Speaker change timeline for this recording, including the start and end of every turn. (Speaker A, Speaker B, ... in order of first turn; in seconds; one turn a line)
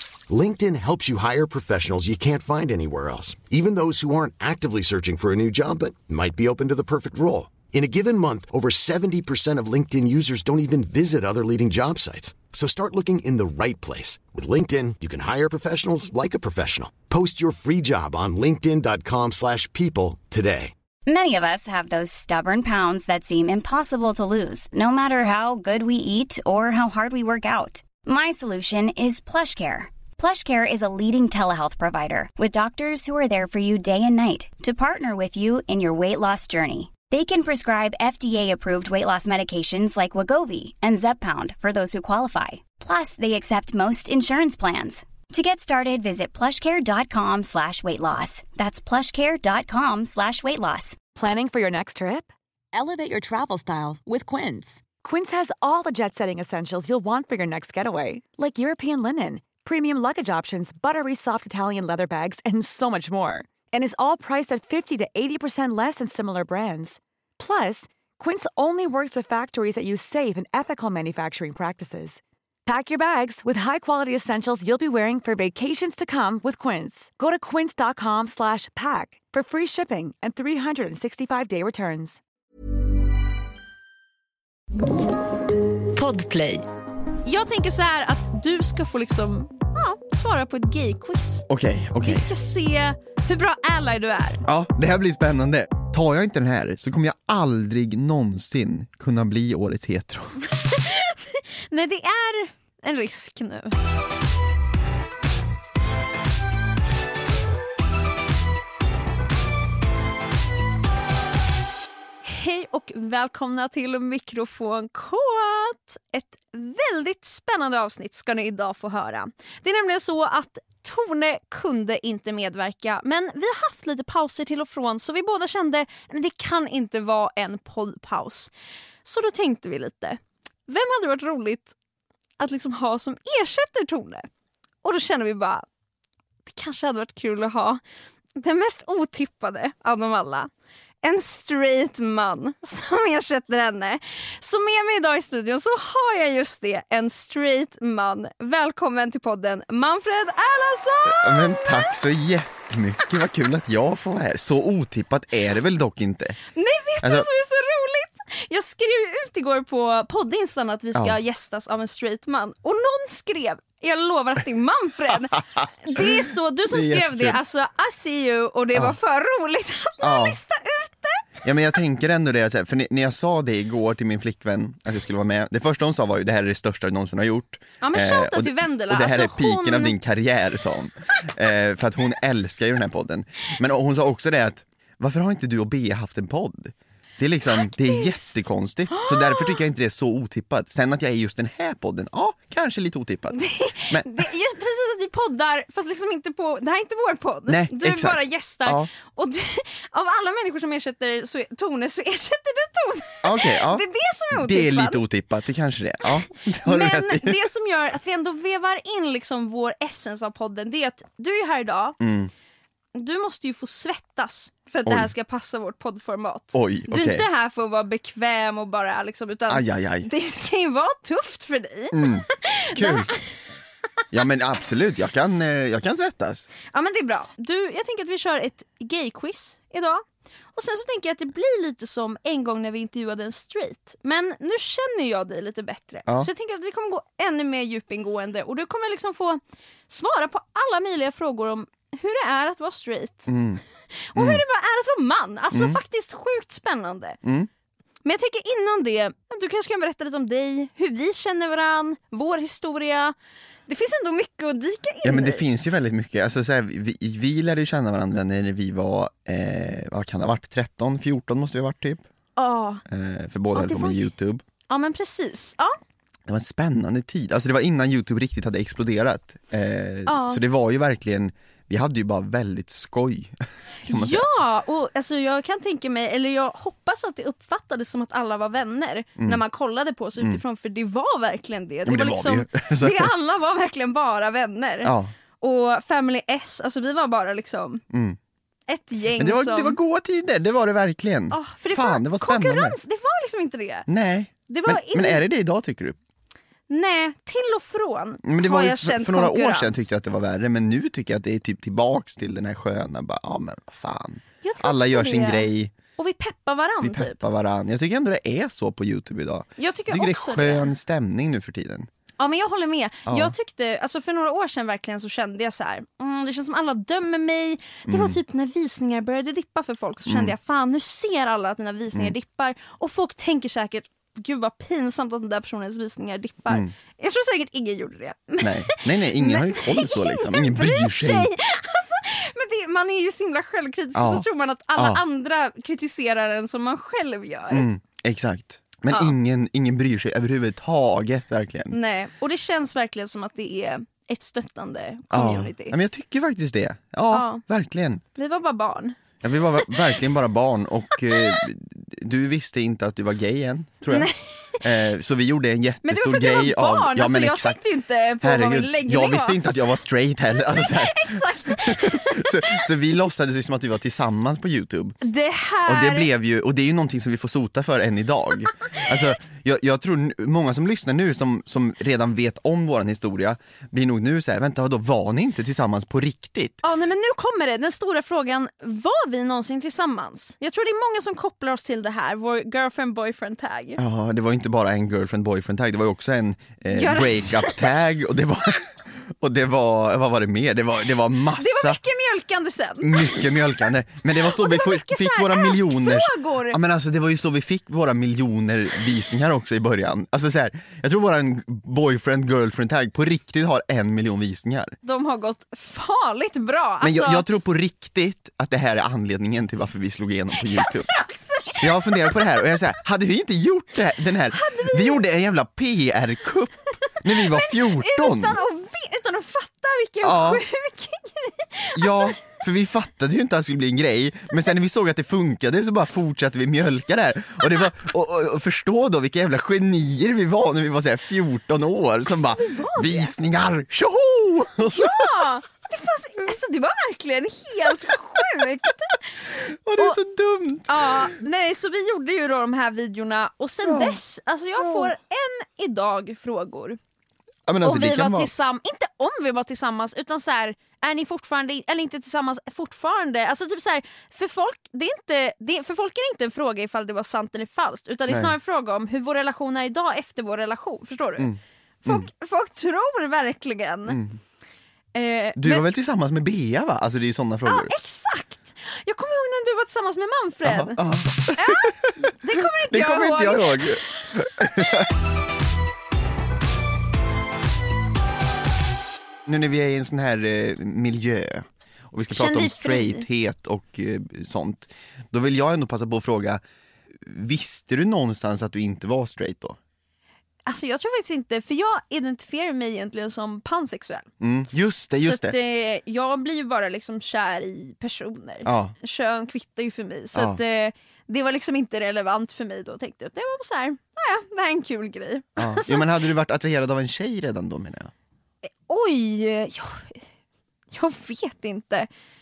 Speaker A: 0.3-20.7
Speaker B: 21.1-51.0
Speaker C: 51.1-82.2
Speaker D: 86.0-86.6
Speaker D: 87.2-91.4
Speaker E: 91.5-92.3
Speaker D: 92.0-94.4
Speaker E: 94.5-100.5
Speaker D: 100.5-103.7
Speaker D: 112.2-128.5
Speaker D: 129.0-131.8
Speaker D: 132.4-134.3
Speaker D: 134.8-135.7
Speaker D: 136.4-137.8
Speaker D: 138.4-140.5
Speaker D: 141.0-151.9
Speaker E: 151.1-156.4
Speaker D: 156.5-171.4
Speaker E: 157.0-157.3
Speaker E: 165.9-167.4
Speaker E: 170.0-170.4
Speaker E: 171.4-194.3
Speaker D: 177.8-179.9
Speaker D: 187.5-188.4
Speaker D: 188.9-189.6
Speaker D: 193.3-205.0
Speaker E: 197.5-198.9
Speaker E: 203.2-207.5
Speaker D: 206.1-212.0
Speaker E: 212.0-212.3
Speaker D: 212.9-223.4
Speaker E: 214.8-215.1
Speaker E: 216.5-217.3
Speaker E: 219.5-220.1
Speaker E: 221.9-223.1
Speaker E: 224.1-226.5
Speaker D: 226.7-230.0
Speaker D: 230.5-243.3
Speaker E: 243.3-243.6
Speaker D: 244.1-247.2
Speaker E: 244.1-244.4
Speaker E: 245.5-245.8
Speaker E: 247.2-247.5
Speaker D: 248.0-253.1
Speaker D: 253.7-255.4
Speaker E: 255.0-262.0
Speaker D: 262.4-262.8
Speaker E: 262.9-264.4
Speaker D: 263.5-264.1
Speaker D: 264.7-265.7
Speaker E: 266.3-274.3
Speaker D: 270.1-270.4
Speaker D: 273.9-287.8
Speaker E: 281.9-283.1
Speaker E: 284.8-285.1
Speaker E: 287.9-288.2
Speaker D: 288.7-289.8
Speaker E: 289.2-292.8
Speaker D: 291.3-293.9
Speaker E: 293.9-296.0
Speaker D: 294.5-295.2
Speaker D: 296.7-299.9
Speaker E: 298.2-305.7
Speaker D: 304.4-307.2
Speaker E: 306.8-311.9
Speaker D: 309.6-310.7
Speaker D: 312.2-337.7
Speaker E: 313.1-313.3
Speaker E: 317.9-318.2
Speaker E: 320.1-320.4
Speaker E: 328.4-331.3
Speaker E: 333.9-335.0
Speaker E: 337.5-341.8
Speaker D: 338.9-339.1
Speaker D: 341.7-345.8
Speaker E: 345.1-348.0
Speaker D: 347.1-347.4
Speaker D: 348.1-349.0
Speaker E: 349.2-357.6
Speaker D: 353.9-354.6
Speaker D: 355.8-359.5
Speaker E: 358.2-365.0
Speaker D: 360.6-362.6
Speaker D: 365.0-366.1
Speaker E: 365.6-376.6
Speaker D: 376.6-383.8
Speaker E: 383.8-391.8
Speaker D: 386.7-387.8
Speaker D: 391.4-393.7
Speaker E: 392.8-404.8
Speaker D: 394.2-396.6
Speaker D: 404.8-407.2
Speaker E: 406.8-410.9
Speaker D: 410.4-412.5
Speaker E: 411.6-418.4
Speaker D: 414.3-415.0
Speaker D: 417.1-422.2
Speaker E: 420.0-420.4
Speaker E: 421.7-435.2
Speaker D: 432.0-433.1
Speaker D: 434.6-439.1
Speaker E: 437.6-438.4
Speaker E: 439.3-441.1
Speaker D: 440.7-446.8
Speaker E: 443.6-444.0
Speaker E: 444.6-444.9
Speaker E: 447.4-448.3
Speaker D: 447.6-461.3
Speaker E: 458.1-458.4
Speaker E: 461.2-462.1
Speaker D: 461.8-464.0
Speaker E: 463.9-464.2
Speaker D: 464.9-465.6
Speaker E: 465.4-467.7
Speaker D: 467.5-470.8
Speaker E: 470.4-474.9
Speaker D: 471.3-474.1
Speaker E: 479.2-486.4
Speaker D: 482.1-483.1
Speaker E: 487.0-489.6
Speaker D: 490.4-494.1
Speaker E: 494.2-495.3
Speaker D: 494.9-505.9
Speaker E: 498.4-498.7
Speaker E: 500.1-500.4
Speaker E: 505.4-507.9
Speaker D: 508.7-510.0
Speaker D: 510.7-511.9